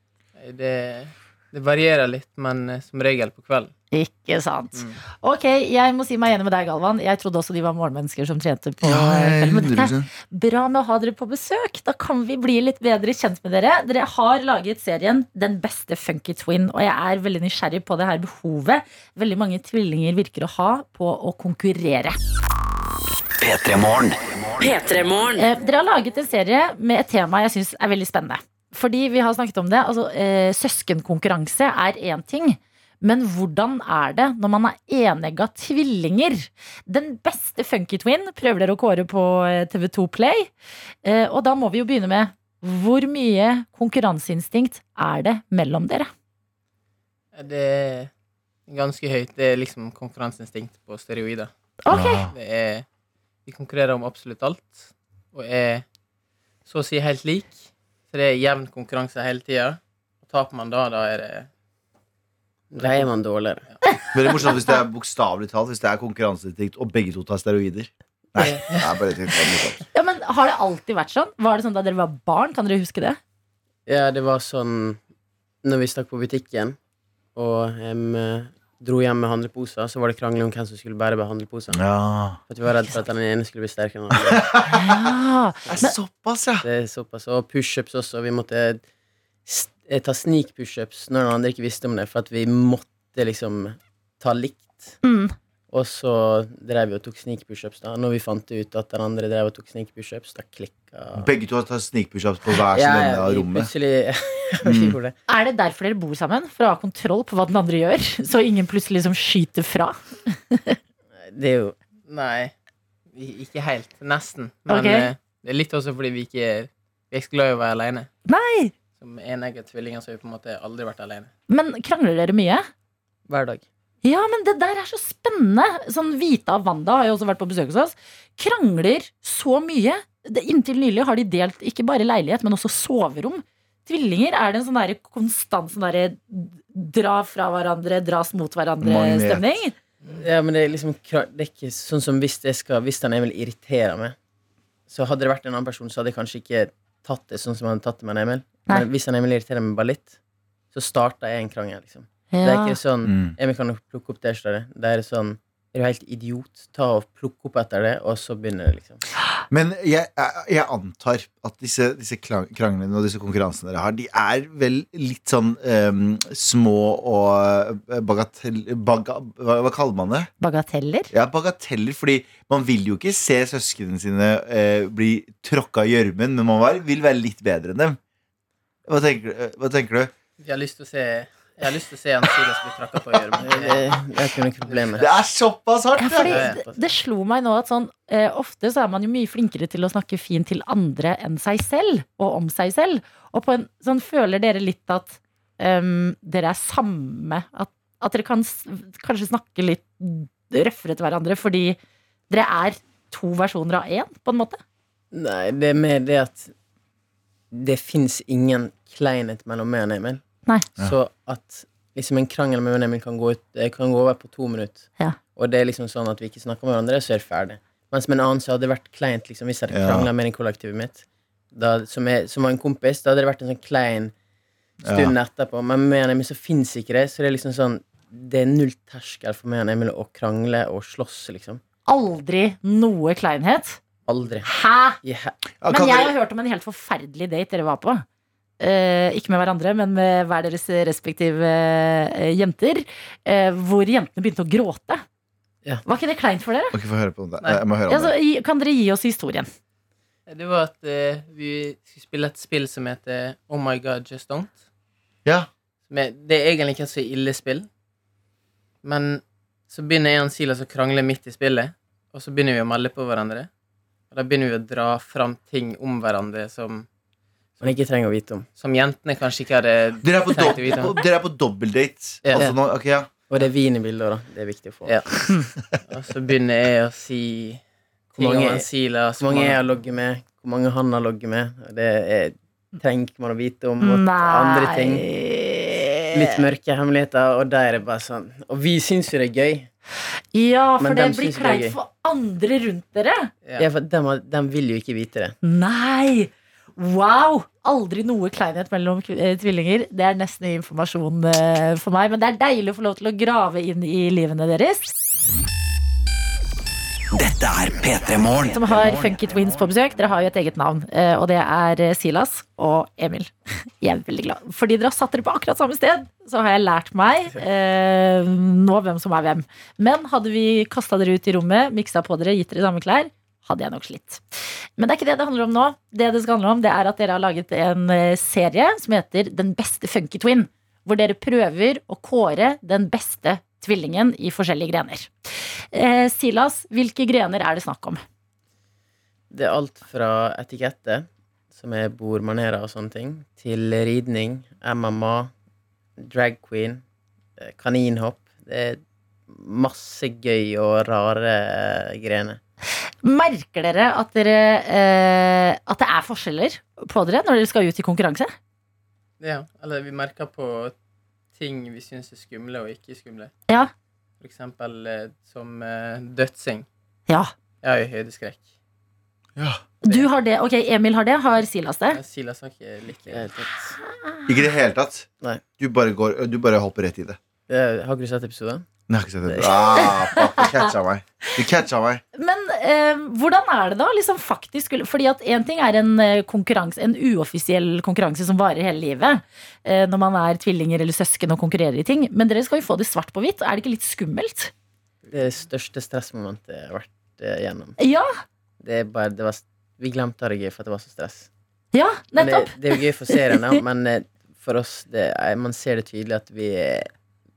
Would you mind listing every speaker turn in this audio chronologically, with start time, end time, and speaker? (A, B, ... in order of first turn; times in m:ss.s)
0:00.4-0:03.7 A
0:03.9-0:22.2 B
0:04.7-0:05.0 A
0:08.8-0:10.1 C
0:23.4-0:25.4 D
0:25.4-0:40.5 B
0:41.0-0:46.1 B
0:47.3-0:48.1 A
0:48.7-0:51.5 A
0:51.8-0:52.2 B
0:51.9-0:52.3 C
0:52.2-0:52.8 A
0:53.4-0:55.8 A
0:56.6-1:01.5 A
1:02.7-1:03.6 E
1:02.8-1:03.1 A
1:04.1-1:09.8 C
1:08.4-1:08.9 A
1:09.9-1:13.2 B
1:13.8-1:15.0 E
1:15.6-1:16.8 E
1:17.3-1:21.9 E
1:21.7-1:22.4 C
1:22.5-1:24.6 E
1:24.3-1:24.8 C
1:24.7-1:25.9 B
1:25.6-1:26.6 C
1:26.6-1:28.8 E
1:29.4-1:35.0 E
1:35.0-1:35.3 B
1:35.7-1:41.3 E
1:41.2-1:43.7 C
1:42.6-1:45.1 E
1:44.6-1:45.0 C
1:45.3-1:50.8 B
1:51.2-1:51.8 E
1:52.0-1:52.5 A
1:53.1-1:58.1 A
1:54.7-1:55.1 B
1:58.3-1:58.7 B
1:59.0-2:01.3 A
2:01.5-2:02.6 B
2:03.3-2:03.6 E
2:04.0-2:19.7 B
2:18.8-2:19.6 C
2:20.1-2:24.2 E
2:24.9-2:30.2 E
2:30.7-2:39.0 E
2:32.3-2:32.8 B
2:33.0-2:33.3 C
2:39.5-2:50.3 C
2:50.4-2:51.1 B
2:51.1-2:58.0 C
2:58.9-3:00.1 C
3:00.4-3:04.0 A
3:03.1-3:03.4 C
3:03.4-3:05.0 E
3:04.6-3:05.1 A
3:05.0-3:06.4 C
3:06.0-3:21.8 B
3:06.2-3:06.6 A
3:06.3-3:06.8 E
3:22.3-3:24.6 B
3:25.1-3:26.5 E
3:27.5-3:30.2 E
3:30.8-3:44.1 E
3:39.7-3:40.1 C
3:44.8-3:51.6 E
3:44.8-3:45.1 C
3:51.9-3:53.8 B
3:54.0-3:55.3 E
3:54.4-3:55.0 B
3:55.6-3:56.1 C
3:55.7-3:58.0 B
3:58.6-4:05.0 B
4:05.8-4:06.7 B
4:06.7-4:08.1 C
4:07.4-4:07.6 A
4:07.9-4:09.5 B
4:10.3-4:14.6 A
4:15.9-4:17.7 A
4:18.8-4:23.5 A
4:24.1-4:26.9 A
4:27.6-4:28.5 E
4:28.5-4:31.0 A
4:30.0-4:33.1 C
4:32.2-4:32.5 A
4:33.3-4:35.1 E
4:35.9-4:37.6 A
4:38.1-4:39.6 A
4:38.2-4:45.1 E
4:43.8-4:46.4 B
4:46.1-4:49.7 E
4:50.3-4:53.3 B
4:50.8-4:51.8 E
4:53.6-4:55.4 E
4:55.4-5:04.9 B
5:07.1-5:08.5 D
5:08.5-5:24.2 B
5:24.8-5:35.1 B
5:35.7-5:38.0 B
5:39.3-5:45.3 E
5:46.0-5:46.8 E
5:47.4-5:52.4 E
5:53.0-5:58.3 B
5:59.2-6:00.7 A
6:01.3-6:03.3 A
6:04.2-6:06.7 A
6:07.6-6:08.5 A
6:09.8-6:12.0 B
6:11.9-6:13.4 A
6:13.1-6:13.8 E
6:13.9-6:14.3 B
6:14.3-6:17.2 C
6:17.5-6:18.6 E
6:18.9-6:22.0 C
6:19.2-6:19.9 E
6:19.7-6:20.6 B
6:22.2-6:34.5 B
6:35.1-6:37.8 E
6:37.8-6:38.1 B
6:38.6-6:41.3 E
6:41.7-6:43.6 B
6:42.2-6:46.9 E